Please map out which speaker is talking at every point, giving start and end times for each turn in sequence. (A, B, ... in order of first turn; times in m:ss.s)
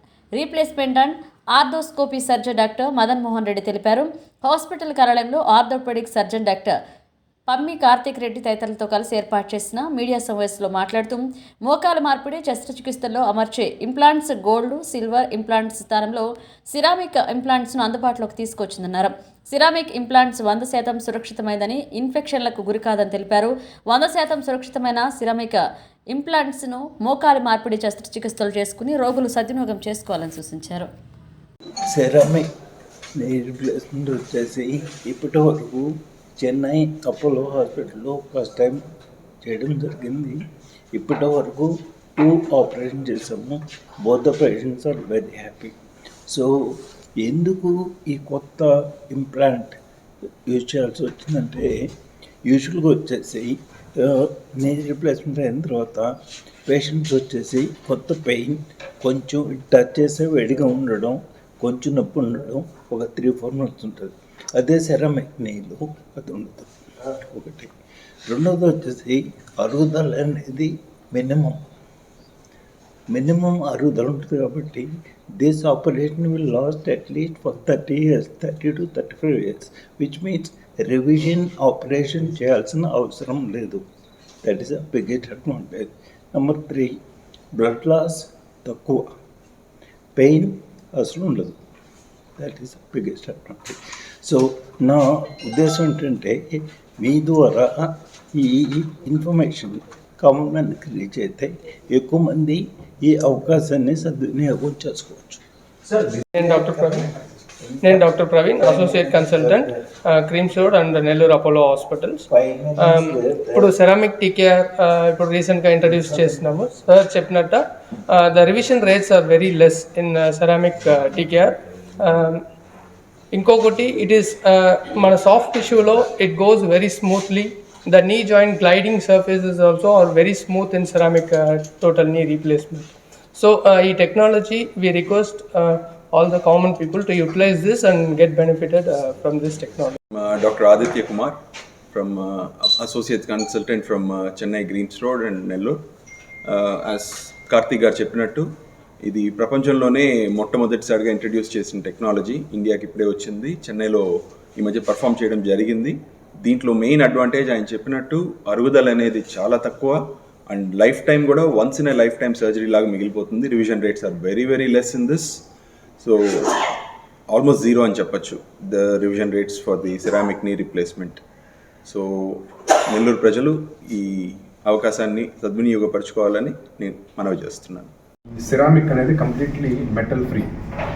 0:00.4-0:06.8 A
0:07.5-0:30.9 A
0:31.9-0:32.5 B
0:33.2-0:38.8 B
0:39.4-0:40.4 B
0:40.9-1:07.7 B
1:08.3-1:11.6 B
1:13.1-1:23.9 B
1:24.4-1:27.0 B
1:27.5-1:29.1 B
1:30.2-1:31.6 B
1:32.4-1:49.9 B
1:46.3-1:47.1 C
1:47.8-1:52.2 C
1:52.3-1:53.8 B
1:52.8-2:02.4 C
1:55.9-1:56.6 B
2:03.3-2:20.0 C
2:20.1-2:21.4 D
2:21.9-2:25.8 D
2:26.4-2:28.5 D
2:29.0-2:45.4 D
2:46.0-2:46.8 D
2:47.3-2:51.2 D
2:51.9-2:57.9 D
2:58.4-3:00.5 E